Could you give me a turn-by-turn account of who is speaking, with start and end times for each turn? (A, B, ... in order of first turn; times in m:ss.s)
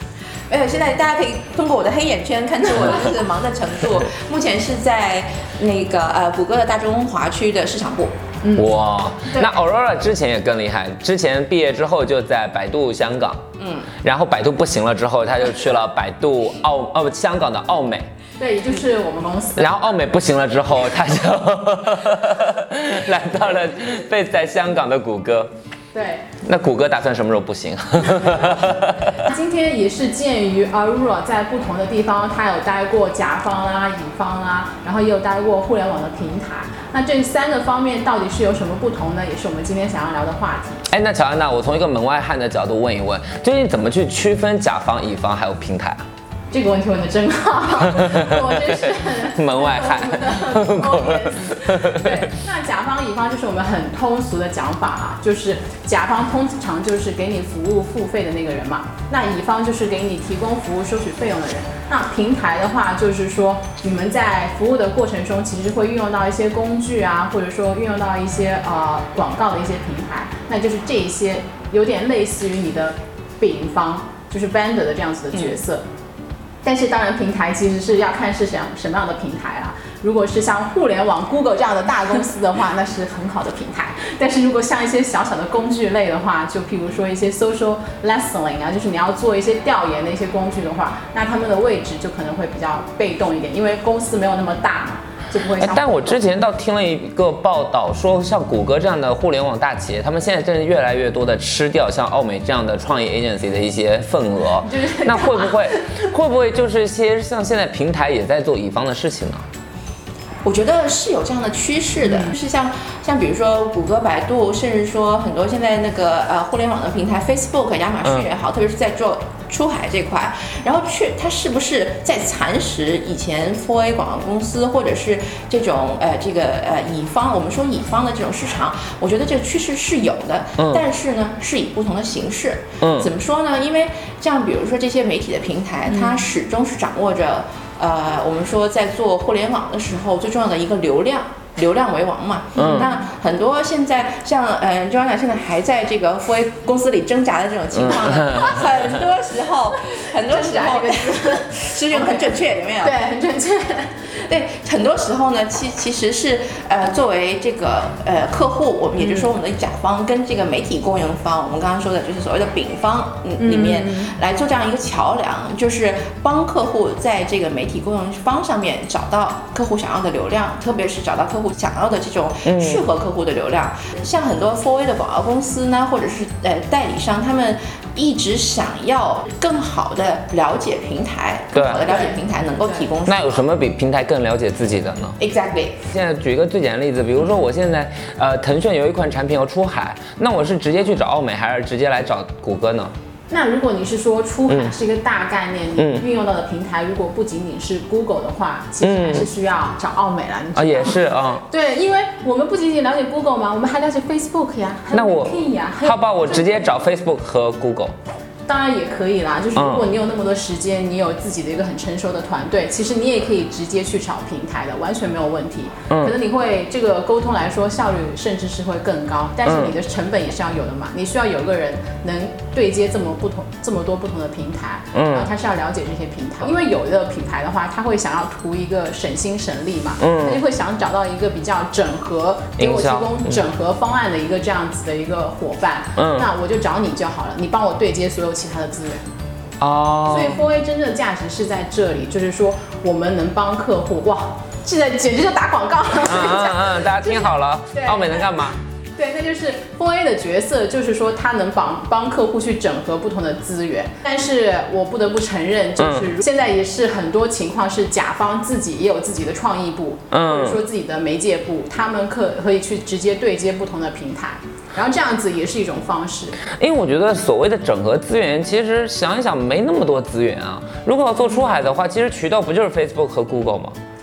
0:00.5-0:08.2 A
0:08.4-0:08.7 B
0:08.5-0:13.4 C
0:13.6-0:13.9 A
0:13.9-0:18.1 C
0:18.4-0:20.0 B
0:19.6-0:25.5 C
0:25.9-0:26.3 B
0:26.4-0:29.2 C
0:29.2-0:40.8 B
0:40.9-0:46.0 C
0:46.5-1:15.8 B
0:47.9-0:52.2 C
1:16.6-1:36.2 B
1:35.6-1:49.4 C
1:44.6-1:45.9 B
1:50.4-2:33.0 A
2:10.6-2:10.8 C
2:12.8-2:13.1 C
2:15.9-2:16.2 B
2:22.6-2:22.9 C
2:22.6-2:23.0 B
2:27.8-2:28.6 C
2:30.0-2:34.1 B
2:34.1-3:03.4 A
2:39.0-2:39.3 B
2:43.4-2:44.1 B
2:52.4-2:52.8 C
3:01.5-3:01.9 C
3:01.8-3:02.9 B
3:03.0-3:05.2 C
3:05.2-3:05.8 A
3:05.9-3:12.9 C
3:13.3-3:26.8 B
3:15.8-3:16.0 C
3:18.8-3:19.3 C
3:20.5-3:21.4 C
3:24.9-3:27.9 C
3:28.5-3:59.0 B
3:29.6-3:29.9 C
3:35.9-3:36.1 C
3:39.4-3:39.8 C
3:44.9-3:45.3 C
3:50.0-3:50.4 C
3:52.6-3:53.4 C
3:56.0-3:56.3 C
3:59.6-4:00.4 C
4:00.1-4:26.4 B
4:06.0-4:08.6 C
4:15.8-4:16.1 C
4:20.1-4:20.6 C
4:26.5-4:33.8 C
4:31.2-4:31.6 B